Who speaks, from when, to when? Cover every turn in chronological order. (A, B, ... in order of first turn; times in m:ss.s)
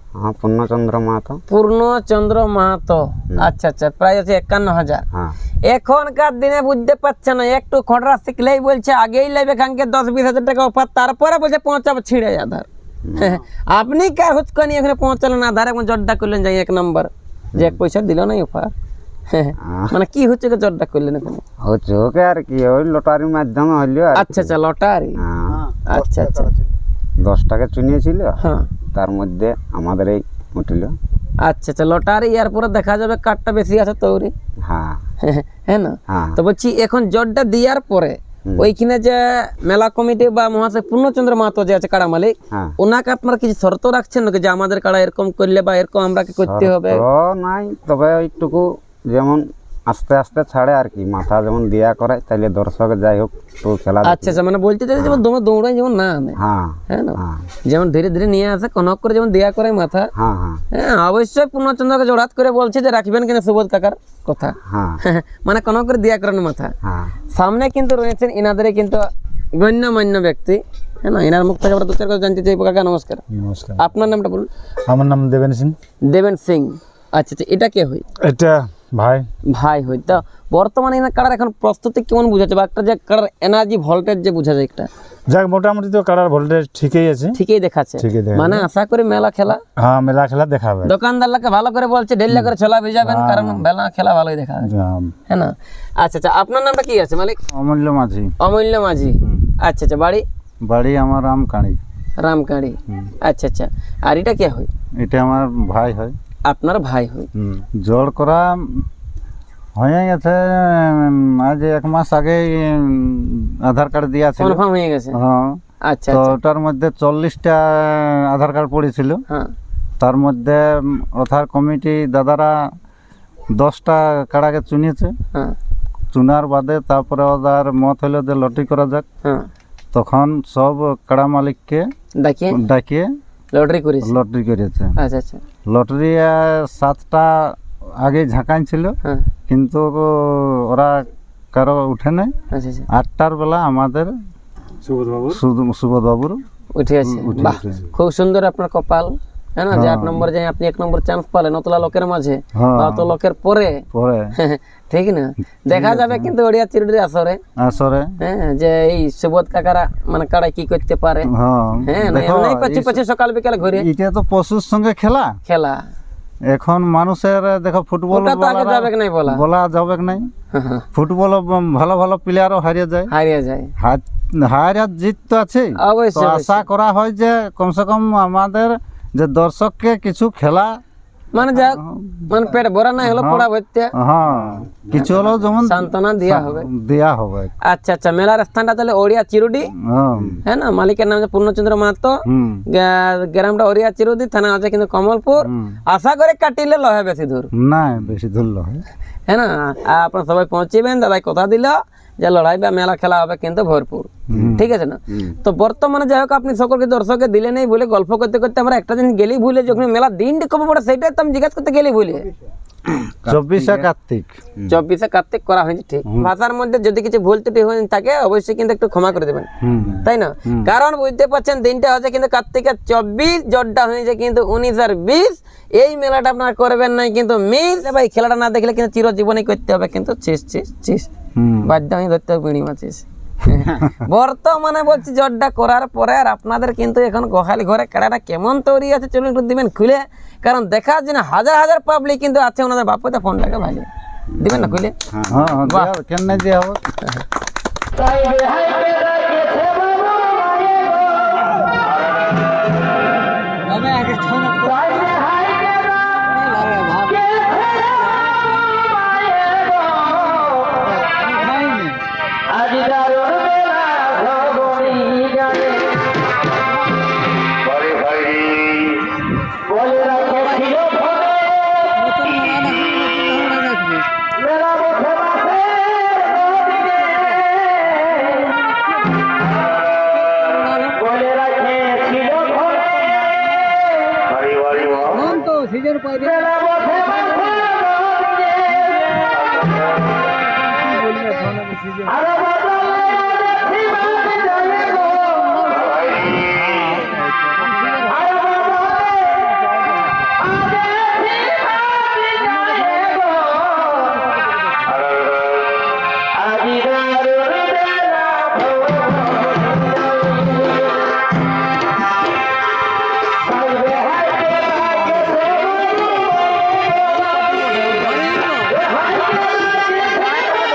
0:00.2-0:01.4 A
0:01.5-0:05.0 B
0:05.1-0:05.4 A
0:05.6-0:18.7 B
0:13.1-0:13.4 A
0:19.3-0:21.4 B
0:19.6-0:20.0 A
0:21.6-0:24.6 A
0:24.2-0:25.2 B
0:25.2-0:25.7 A
0:25.7-0:26.6 C
0:25.8-0:26.5 B
0:27.2-0:28.4 A
0:28.4-0:28.7 B
0:28.9-0:31.0 A
0:31.4-0:34.3 B
0:34.6-0:35.0 A
0:35.2-0:47.0 B
0:36.1-0:36.4 A
0:46.4-0:54.4 A
0:54.0-1:00.1 B
0:55.0-0:55.2 A
0:56.4-0:57.5 A
1:00.2-1:00.6 A
1:00.7-1:06.7 B
1:04.6-1:05.0 A
1:06.8-1:07.2 A
1:07.3-1:13.2 B
1:13.3-1:13.8 C
1:13.8-1:14.5 B
1:14.9-1:15.8 C
1:16.0-1:18.0 B
1:18.2-1:19.3 C
1:19.5-1:24.9 B
1:25.3-1:27.4 C
1:27.3-1:29.6 B
1:28.0-1:28.6 C
1:29.8-1:30.9 C
1:30.8-1:34.7 B
1:33.0-1:33.6 D
1:34.7-1:35.1 C
1:35.3-1:37.4 B
1:37.5-1:38.4 D
1:38.4-1:40.2 B
1:39.2-1:39.5 D
1:40.6-1:41.8 D
1:42.2-1:44.7 B
1:45.0-1:46.2 D
1:46.4-1:47.3 B
1:47.4-1:48.9 D
1:49.8-1:54.6 D
1:54.4-1:55.2 B
1:55.1-1:59.2 D
1:55.8-1:56.4 B
2:00.0-2:02.6 D
2:03.5-2:05.2 D
2:06.1-2:09.0 D
2:09.9-2:11.9 D
2:12.2-2:12.6 B
2:12.5-2:13.1 D
2:13.5-2:14.2 B
2:14.0-2:15.0 D
2:15.0-2:15.4 B
2:15.7-2:19.0 D
2:19.5-2:22.3 D
2:22.5-2:22.9 B
2:22.9-2:24.1 D
2:24.8-2:25.4 C
2:25.2-2:26.4 D
2:26.8-2:37.4 B
2:27.0-2:27.9 D
2:29.7-2:30.3 D
2:32.6-2:33.1 D
2:33.9-2:34.3 D
2:35.7-2:36.3 D
2:37.6-2:38.1 D
2:38.2-2:41.3 B
2:41.3-2:43.0 D
2:41.8-2:43.9 B
2:43.6-2:45.4 D
2:45.5-2:45.8 B
2:46.5-2:50.3 D
2:48.1-2:49.4 B
2:50.5-2:50.8 B
2:50.9-2:53.1 D
2:53.1-2:53.7 B
2:53.8-3:00.8 D
2:55.8-2:56.6 B
3:01.3-3:03.9 B
3:01.6-3:02.5 D
3:03.0-3:07.5 D
3:05.0-3:06.7 B
3:07.6-3:09.7 B
3:09.8-3:10.4 D
3:10.2-3:10.4 A
3:10.4-3:17.5 B
3:12.3-3:12.6 D
3:15.4-3:15.8 D
3:17.5-3:18.8 D
3:19.3-3:32.3 B
3:24.3-3:24.6 D
3:24.3-3:25.4 A
3:32.9-3:33.9 A
3:33.3-3:34.3 D
3:34.7-3:39.5 B
3:39.6-3:40.7 D
3:40.0-3:51.1 B
3:51.4-3:51.7 D
3:51.6-4:03.9 B
4:04.3-4:05.7 A
4:04.4-4:04.9 B
4:05.3-4:06.8 D
4:13.7-4:15.3 B
4:16.2-4:17.3 B
4:21.3-4:22.0 D
4:22.7-4:25.7 B
4:24.5-4:24.9 D
4:29.8-4:31.1 B
4:32.0-4:34.1 B
4:38.0-4:38.9 B
4:40.4-4:42.9 B
4:44.7-4:47.5 B
4:51.1-4:52.2 C
4:55.0-4:56.0 B
5:17.9-5:18.8 B